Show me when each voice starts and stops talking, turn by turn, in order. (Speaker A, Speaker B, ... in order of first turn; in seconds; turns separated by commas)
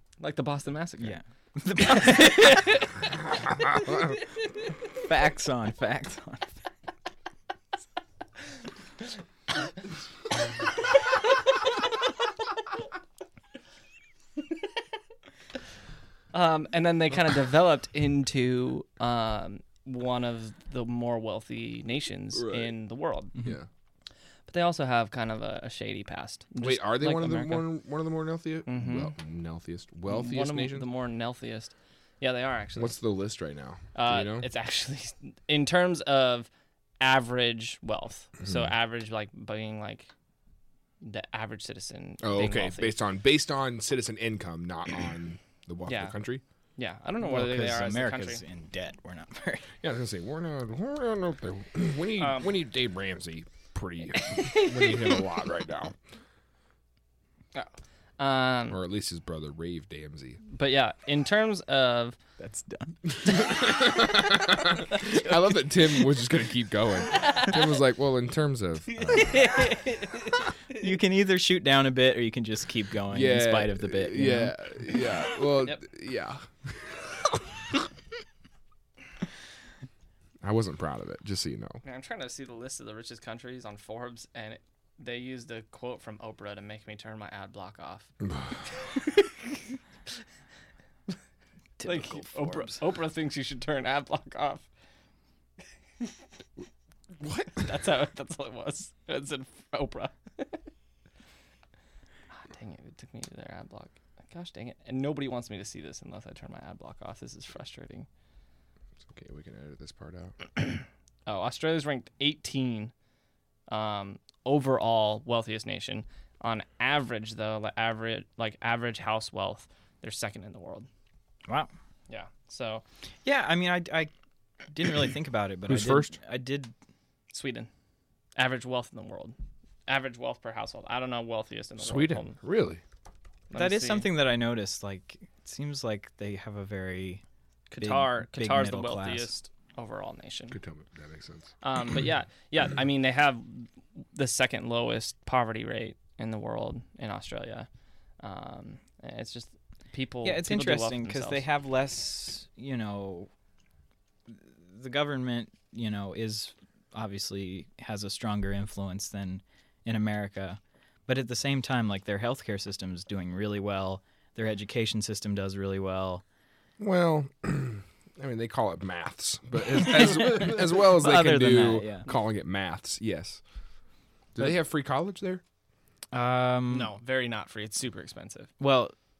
Speaker A: 0.2-1.2, Speaker B: 1.0-2.7, Speaker A: 1.7-3.0, Speaker C: 3.4-4.2, Speaker B: 5.0-6.6, Speaker A: 16.3-23.4, Speaker C: 22.3-22.7, Speaker C: 23.4-23.6, Speaker A: 24.5-27.6, Speaker C: 26.6-30.9, Speaker A: 28.6-29.1, Speaker A: 30.1-32.9, Speaker C: 32.8-34.5, Speaker A: 33.9-36.5, Speaker A: 37.0-40.1, Speaker C: 38.4-38.7, Speaker A: 41.0-42.9, Speaker C: 42.2-46.4, Speaker A: 45.9-46.1, Speaker A: 46.8-48.4, Speaker B: 47.2-49.7, Speaker C: 49.8-56.0, Speaker A: 52.2-52.5, Speaker A: 54.3-54.9, Speaker A: 57.5-58.8, Speaker C: 58.7-60.4, Speaker A: 60.5-62.2, Speaker B: 62.4-63.4, Speaker C: 63.1-69.6, Speaker A: 67.1-67.6, Speaker A: 68.9-70.9, Speaker B: 70.8-74.6, Speaker C: 73.1-77.4, Speaker C: 80.4-81.8, Speaker A: 81.8-88.1, Speaker C: 88.2-88.6, Speaker B: 91.8-92.8, Speaker A: 91.8-94.7, Speaker C: 97.2-97.6, Speaker A: 97.5-100.6, Speaker A: 102.3-108.1, Speaker C: 109.1-110.4, Speaker A: 111.2-112.9, Speaker A: 113.7-120.9, Speaker B: 121.5-121.7, Speaker A: 122.1-122.8, Speaker B: 123.2-124.1, Speaker B: 124.7-126.7, Speaker C: 125.7-126.1, Speaker A: 127.3-127.7, Speaker A: 128.3-129.3, Speaker A: 129.9-132.4, Speaker C: 131.8-132.8, Speaker A: 133.5-134.1, Speaker B: 133.5-137.2, Speaker A: 137.7-140.6, Speaker B: 137.8-139.3, Speaker C: 140.5-141.5, Speaker A: 141.6-147.7, Speaker A: 148.2-151.4, Speaker B: 150.2-153.3, Speaker B: 154.3-166.2, Speaker C: 166.8-173.4, Speaker B: 169.8-172.1, Speaker C: 174.3-175.4, Speaker B: 176.1-176.9, Speaker A: 176.7-178.5, Speaker B: 178.6-178.9